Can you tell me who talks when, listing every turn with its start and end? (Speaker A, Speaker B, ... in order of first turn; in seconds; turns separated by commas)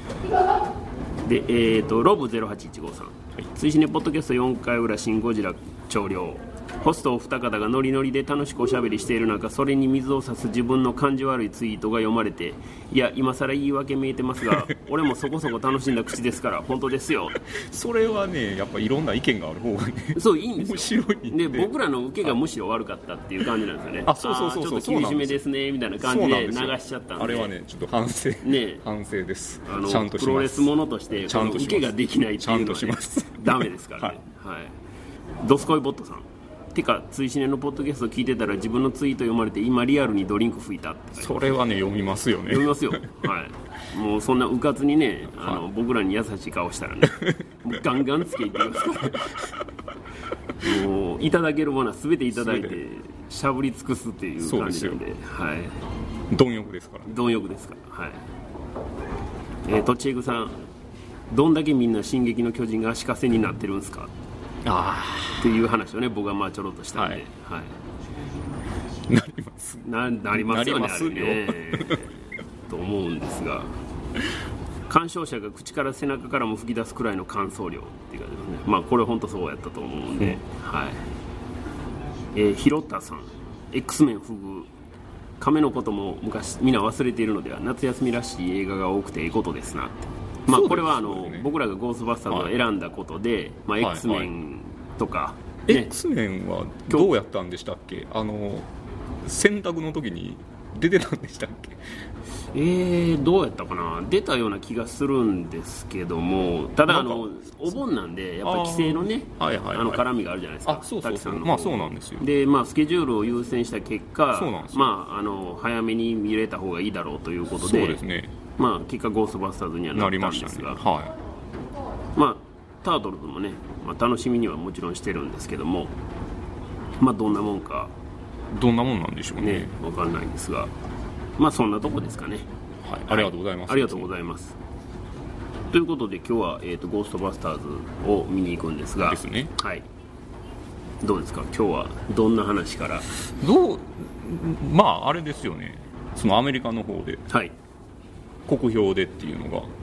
Speaker A: 1.2-17.4, Speaker B: 14.4-14.7, Speaker B: 17.4-21.7, Speaker A: 20.1-27.5, Speaker B: 24.1-25.4, Speaker B: 26.0-30.7, Speaker A: 28.4-28.8, Speaker A: 29.7-34.8, Speaker B: 31.3-34.2, Speaker A: 35.4-41.4, Speaker B: 41.2-43.1, Speaker A: 42.5-49.6, Speaker B: 45.4-45.6, Speaker B: 47.1-47.4, Speaker A: 50.6-55.8, Speaker B: 52.4-52.8, Speaker B: 54.4-55.0, Speaker B: 56.3-57.1, Speaker A: 57.1-58.2, Speaker A: 59.6-60.5, Speaker A: 61.3-64.1, Speaker B: 64.6-65.5, Speaker A: 65.4-67.7, Speaker B: 69.1-72.1, Speaker A: 69.8-73.7, Speaker A: 74.9-81.0, Speaker A: 82.3-84.7, Speaker A: 85.4-95.9, Speaker B: 90.5-91.5, Speaker B: 93.8-94.3, Speaker B: 95.7-98.7, Speaker B: 99.2-101.8, Speaker A: 102.5-118.0, Speaker B: 106.9-107.3, Speaker B: 108.4-110.0, Speaker B: 110.7-112.3, Speaker B: 114.3-114.9, Speaker B: 117.6-118.3, Speaker A: 118.6-120.8, Speaker B: 120.0-121.2, Speaker A: 122.2-126.0, Speaker A: 127.0-127.9, Speaker B: 128.5-129.7, Speaker A: 129.4-130.7, Speaker A: 131.4-132.5, Speaker B: 132.8-134.1, Speaker A: 133.1-134.6, Speaker A: 135.7-139.8, Speaker B: 139.0-139.5, Speaker A: 141.0-143.1, Speaker B: 143.3-147.2, Speaker A: 147.3-147.5, Speaker B: 148.5-149.7